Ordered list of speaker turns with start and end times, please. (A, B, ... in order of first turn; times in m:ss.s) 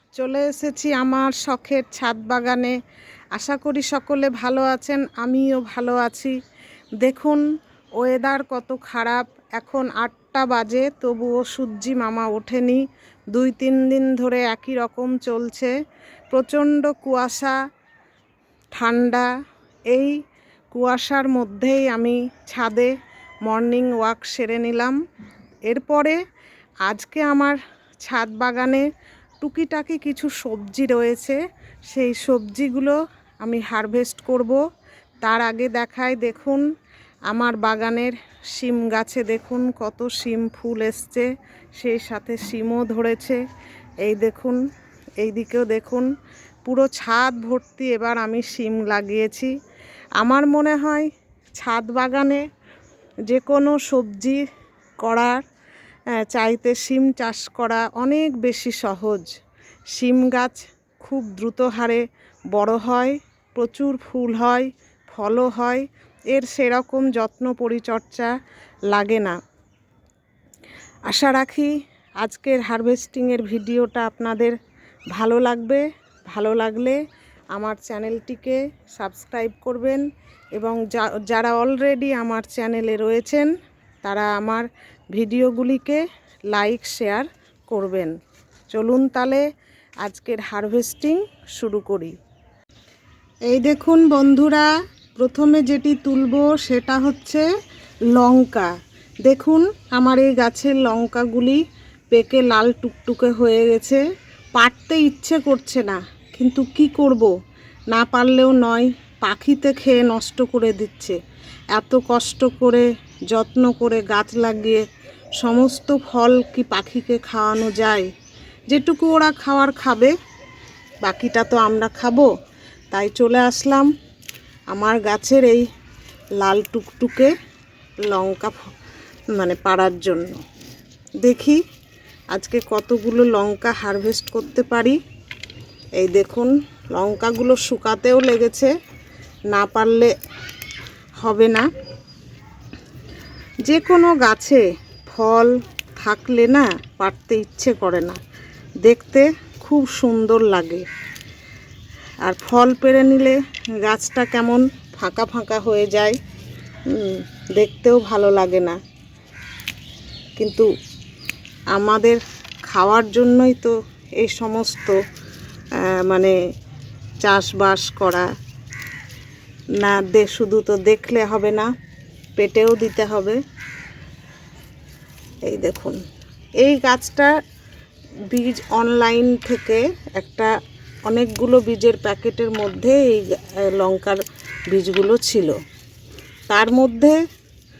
0:00.2-0:02.8 A
0:03.3-0:06.4 A
0:07.0-0:07.4 A
0:08.0-0:12.8 A
0:13.3-0:15.7 A
0:16.3-0:17.6 A
0:18.7-0:19.3 A
0:19.9-0:20.2 A
0:20.7-0:22.9 A
0:23.4-0:25.0 A
0:25.7-0:26.2 A
0:26.8-0:28.8 A
0:29.4-0:31.4 A
0:31.9-0:34.6 A
0:35.2-0:36.6 A
0:37.3-0:43.4 A
0:44.0-0:44.6 A
0:45.2-0:46.1 A
0:46.6-0:49.5 A
0:50.2-0:52.4 A
0:53.3-0:54.4 A
0:55.0-0:55.4 A
0:56.1-0:59.3 A
0:59.9-1:08.4 A
1:08.9-1:09.4 A
1:11.1-1:14.6 A
1:15.1-1:17.0 A
1:17.5-1:23.5 A
1:24.0-1:28.1 A
1:28.7-1:29.4 A
1:30.0-1:32.2 A
1:33.4-1:37.4 A
1:38.1-1:38.7 A
1:39.2-1:41.6 A
1:42.1-1:44.0 A
1:44.6-1:47.3 A
1:47.9-1:51.2 A
1:51.7-1:54.8 A
1:55.4-1:58.1 A
1:58.7-2:00.1 A
2:01.0-2:02.3 A
2:02.9-2:03.9 A
2:04.7-2:05.6 A
2:06.4-2:07.3 A
2:08.0-2:08.7 A
2:09.3-2:10.4 A
2:11.2-2:11.6 A
2:12.3-2:15.0 A
2:16.0-2:18.7 A
2:19.5-2:20.1 A
2:21.2-2:21.7 A
2:23.6-2:28.2 A
2:28.8-2:30.8 A
2:32.2-2:36.2 A
2:36.9-2:38.8 A
2:40.4-2:40.7 A
2:41.7-2:45.0 A
2:45.8-2:46.3 A
2:47.2-2:48.3 A
2:49.8-2:51.7 A
2:52.4-2:53.4 A
2:55.4-2:56.0 A
2:56.6-2:57.4 A
2:58.3-3:00.5 A
3:01.0-3:05.6 A
3:06.5-3:07.2 A